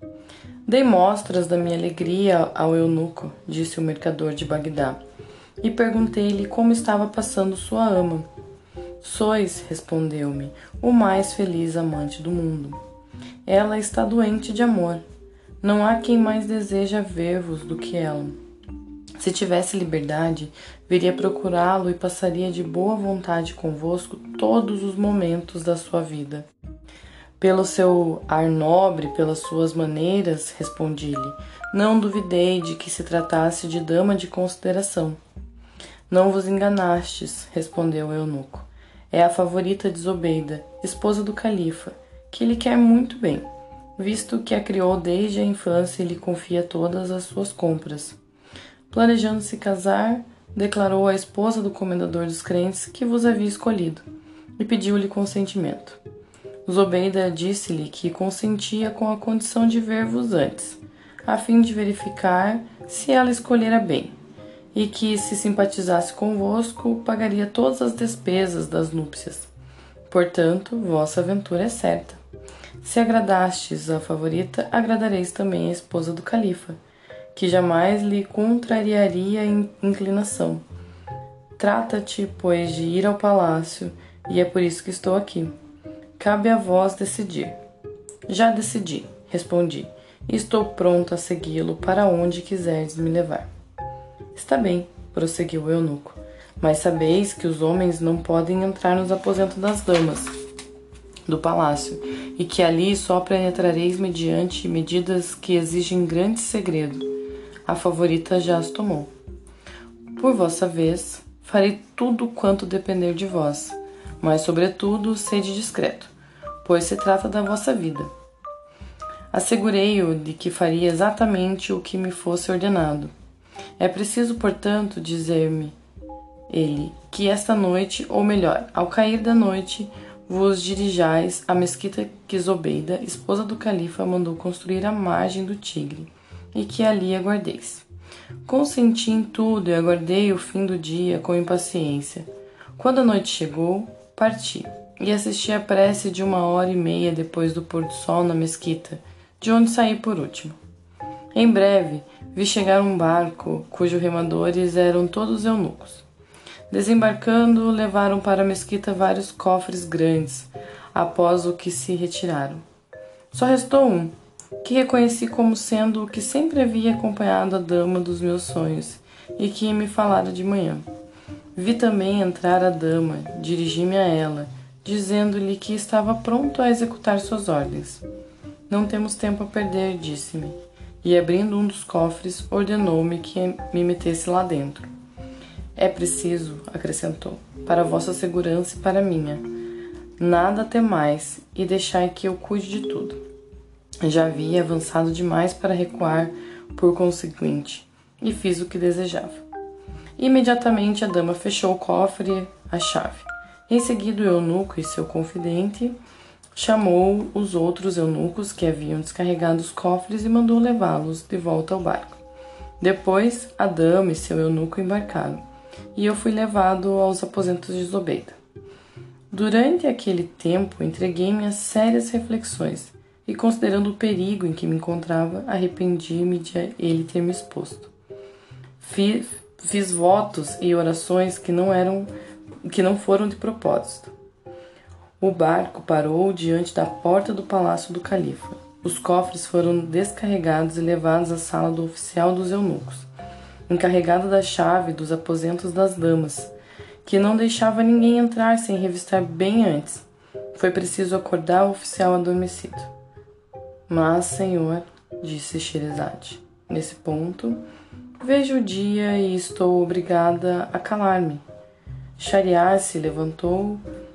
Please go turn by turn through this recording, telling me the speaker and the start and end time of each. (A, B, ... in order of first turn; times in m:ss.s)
0:00.6-0:05.0 A
0:05.6-0:08.3 A
0:09.0-0:12.8 A
0:13.4-0:15.0 A
0:15.6-0:18.4 A
0:19.2-0:26.5 A
0:27.4-0:35.2 A
0:36.1-0:48.2 A
0:48.9-0:54.0 A
0:54.6-0:56.0 A
0:56.6-1:04.1 A
1:04.7-1:09.5 A
1:10.1-1:12.2 A
1:12.8-1:16.8 A
1:17.3-1:20.6 A
1:21.6-1:25.6 A
1:26.2-1:27.6 A
1:28.3-1:33.5 A
1:34.3-1:40.3 A
1:41.3-1:47.1 A
1:47.7-1:49.1 A
1:50.2-1:56.1 A
1:56.6-1:58.1 A
1:59.3-2:03.1 A
2:03.8-2:05.8 A
2:06.5-2:17.9 A
2:18.5-2:30.6 A
2:31.3-2:36.0 A
2:36.7-2:42.6 A
2:43.3-2:50.8 A
2:51.6-2:58.0 A
2:58.7-3:04.9 A
3:05.8-3:09.4 A
3:10.2-3:13.2 A
3:14.0-3:19.4 A
3:20.2-3:26.0 A
3:26.6-3:32.2 A
3:32.8-3:35.4 A
3:35.9-3:38.4 A
3:39.3-3:47.9 A
3:48.8-3:52.1 A
3:52.6-3:54.1 A
3:55.2-4:03.1 A
4:03.7-4:06.5 A
4:07.0-4:12.9 A
4:13.9-4:17.6 A
4:18.2-4:21.4 A
4:22.2-4:23.8 A